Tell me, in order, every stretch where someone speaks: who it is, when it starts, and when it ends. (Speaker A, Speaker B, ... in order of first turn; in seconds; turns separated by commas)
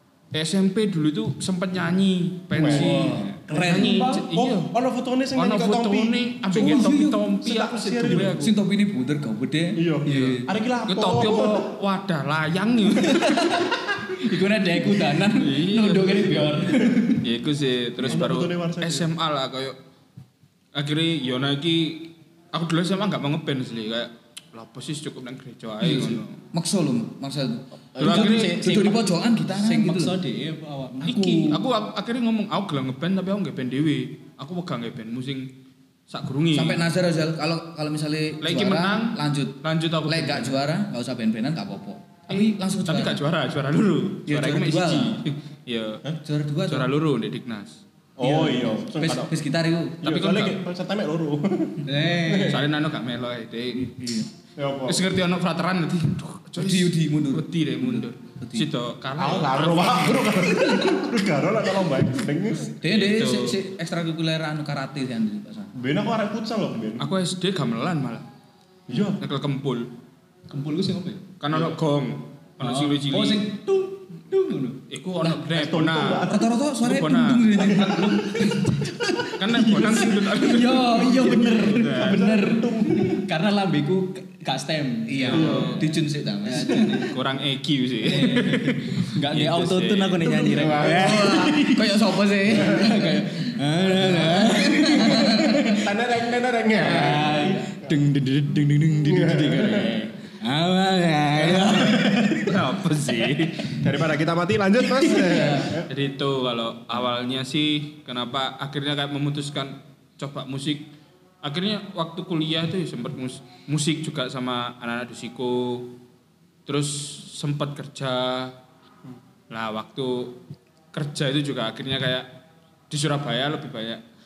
Speaker A: 0.3-4.7, Speaker B: 2.5-3.1, Speaker C: 2.6-4.0, Speaker D: 3.5-4.2, Speaker B: 3.7-8.5, Speaker A: 5.3-8.6, Speaker C: 6.5-7.3, Speaker C: 8.1-10.5, Speaker B: 9.8-11.7, Speaker A: 10.1-13.6, Speaker D: 13.1-17.2, Speaker A: 15.3-19.8, Speaker B: 18.0-19.1, Speaker A: 20.7-26.4, Speaker C: 25.8-30.2, Speaker D: 27.9-31.6, Speaker A: 28.0-28.6, Speaker A: 31.0-35.5, Speaker A: 36.1-36.8, Speaker C: 36.5-43.2, Speaker A: 38.4-40.6, Speaker A: 42.3-46.0, Speaker C: 44.3-45.2, Speaker C: 46.2-46.9, Speaker A: 46.7-47.8, Speaker B: 48.2-49.3, Speaker C: 48.2-50.0, Speaker B: 50.0-52.6, Speaker A: 50.0-50.6, Speaker D: 51.9-52.6, Speaker A: 52.5-54.0, Speaker C: 53.8-54.3, Speaker B: 54.6-55.0, Speaker A: 54.9-60.5, Speaker C: 56.6-58.7, Speaker B: 59.2-62.8, Speaker A: 62.8-63.6, Speaker C: 62.8-65.8, Speaker B: 65.8-67.1, Speaker A: 67.0-68.3, Speaker B: 68.9-69.2, Speaker A: 69.2-69.9, Speaker D: 70.5-71.3, Speaker A: 71.4-73.5, Speaker D: 72.6-74.8, Speaker A: 74.9-77.8, Speaker B: 75.5-76.5, Speaker C: 76.2-79.2, Speaker B: 77.6-78.4, Speaker D: 77.9-78.9, Speaker A: 79.4-82.2, Speaker D: 79.5-85.8, Speaker B: 81.0-83.2, Speaker C: 85.1-87.0, Speaker A: 85.2-85.9, Speaker B: 85.3-85.8, Speaker D: 86.4-87.2, Speaker A: 86.6-90.5, Speaker D: 88.0-91.9, Speaker B: 90.2-91.8, Speaker C: 90.7-95.8, Speaker B: 92.5-93.0, Speaker D: 92.5-95.8, Speaker B: 95.1-98.1, Speaker D: 96.8-103.5, Speaker B: 99.0-100.0, Speaker A: 101.5-103.8, Speaker B: 103.7-105.9, Speaker D: 105.1-105.7, Speaker C: 105.2-105.7, Speaker A: 105.5-110.9, Speaker A: 111.4-115.9, Speaker A: 116.7-118.5, Speaker A: 119.5-120.4, Speaker A: 120.9-122.3, Speaker A: 122.9-124.0